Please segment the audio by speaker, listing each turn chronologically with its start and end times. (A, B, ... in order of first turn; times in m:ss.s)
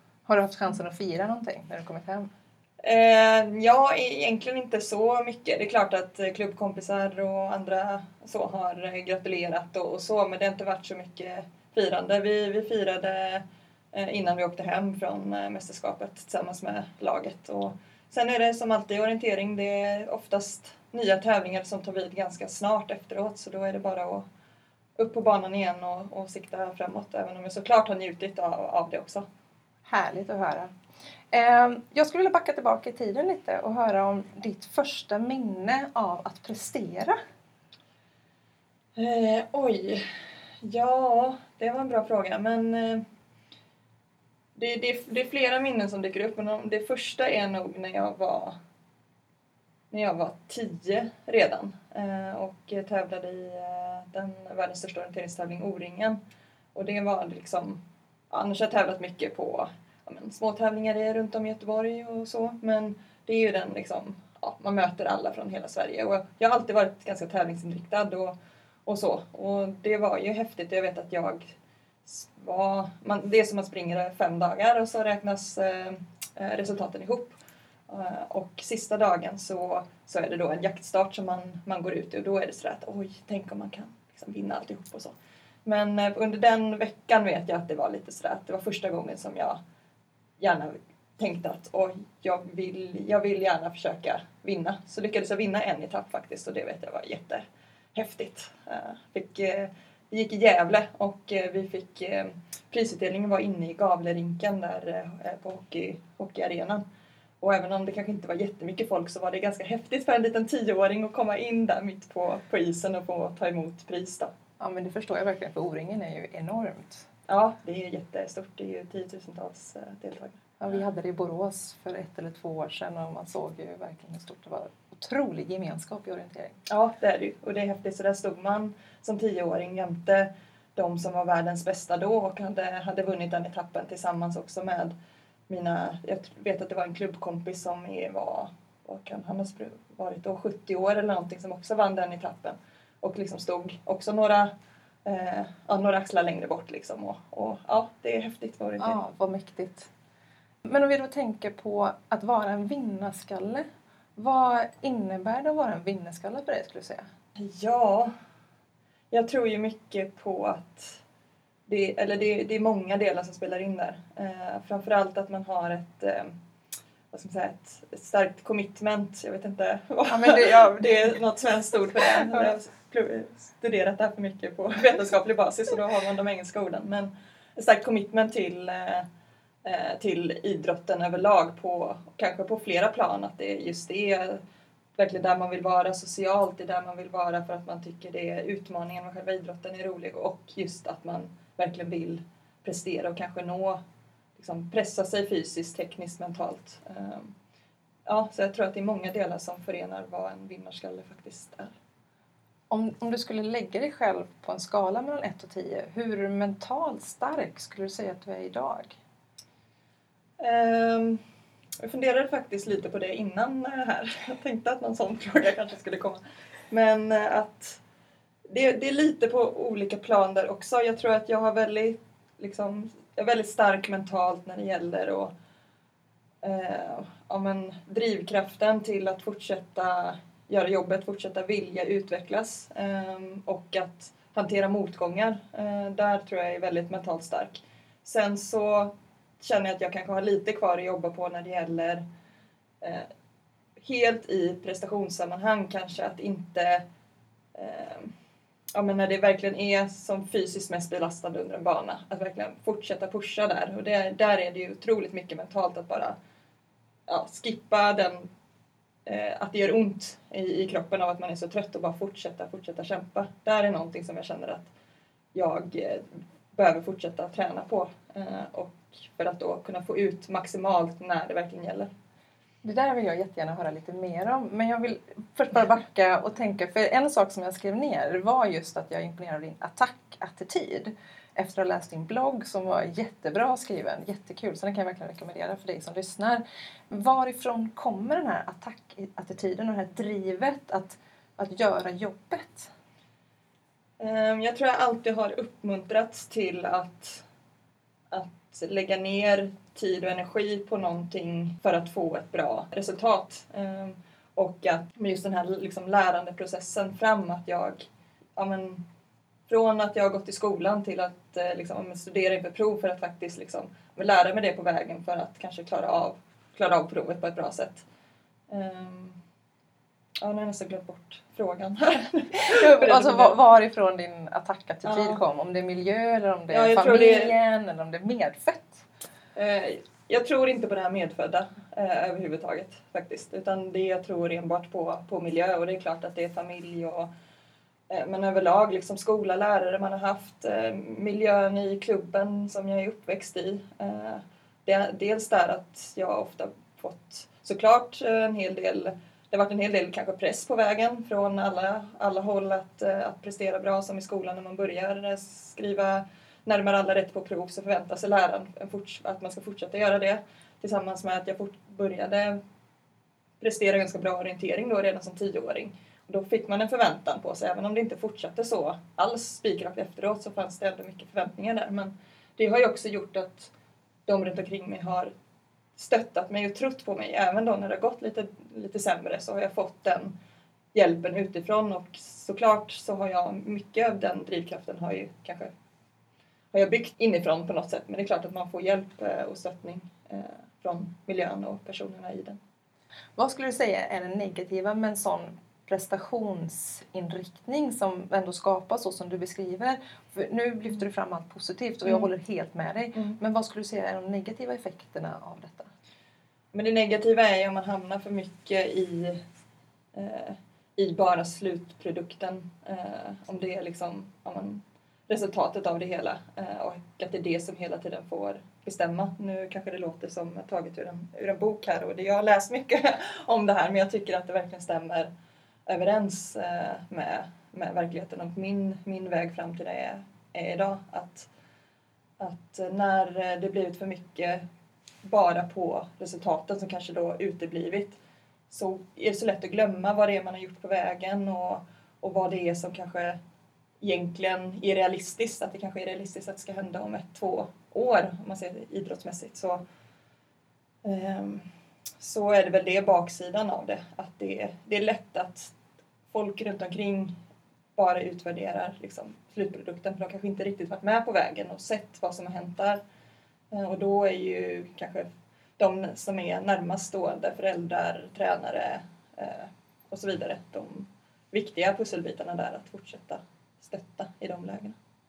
0:00.3-0:02.3 A
0:02.8-0:24.3 B
0:25.0-0:29.3 B
0:29.9-0:30.7 A
0:31.3-0:37.2 A
0:39.0-0:40.0 B
0:40.6-0:43.0 B
0:44.6-0:48.6 B
0:49.9-0:56.2 B
0:56.8-1:08.4 B
1:08.9-1:11.5 B
1:12.1-1:17.4 B
1:17.9-1:25.1 B
1:25.6-1:29.6 B
1:30.4-1:46.8 B
1:47.4-1:54.3 B
1:54.6-1:57.1 A
1:57.3-2:00.4 B
2:00.6-2:06.6 A
2:06.7-2:14.9 B
2:15.5-2:24.5 B
2:25.0-2:29.0 B
2:28.8-2:29.9 A
2:30.7-2:37.1 A
2:37.4-2:38.1 B
2:39.1-2:41.0 B
2:41.7-2:46.4 B
2:47.1-2:59.1 B
2:50.1-2:51.2 A
2:52.2-2:52.5 A
2:59.6-3:04.4 B
3:05.0-3:13.8 B
3:14.4-3:17.3 B
3:18.1-3:21.7 B
3:22.7-3:29.0 A
3:30.4-3:31.2 B
3:31.8-3:37.8 B
3:38.5-3:45.3 B
3:46.4-4:02.0 B
4:02.8-4:03.1 B
4:03.8-4:06.8 B
4:07.6-4:08.1 B
4:08.8-4:16.2 B
4:17.1-4:18.3 B
4:19.1-4:24.7 B
4:25.3-4:31.9 B
4:32.6-4:52.7 A
4:54.0-4:57.2 B
4:58.1-5:08.8 B
5:09.5-5:17.9 B
5:18.5-5:19.2 B
5:20.2-5:23.4 B
5:22.4-5:28.9 A
5:24.8-5:25.2 B
5:26.5-5:27.3 B
5:29.4-5:37.1 B
5:37.9-6:02.4 B
6:03.4-6:13.5 B
6:14.1-6:15.1 B
6:15.8-6:20.1 B
6:20.7-6:25.5 B
6:26.5-6:32.4 B
6:33.2-6:45.7 A
6:46.5-6:49.2 B
6:49.9-7:05.1 B
7:05.7-7:11.3 B
7:12.2-7:14.4 B
7:15.0-7:18.0 B
7:18.5-7:23.2 B
7:23.8-7:29.6 B
7:30.8-7:31.5 B
7:32.0-7:35.5 B
7:36.1-7:37.2 B
7:37.8-7:42.8 B
7:43.5-7:45.1 B
7:45.6-7:54.8 B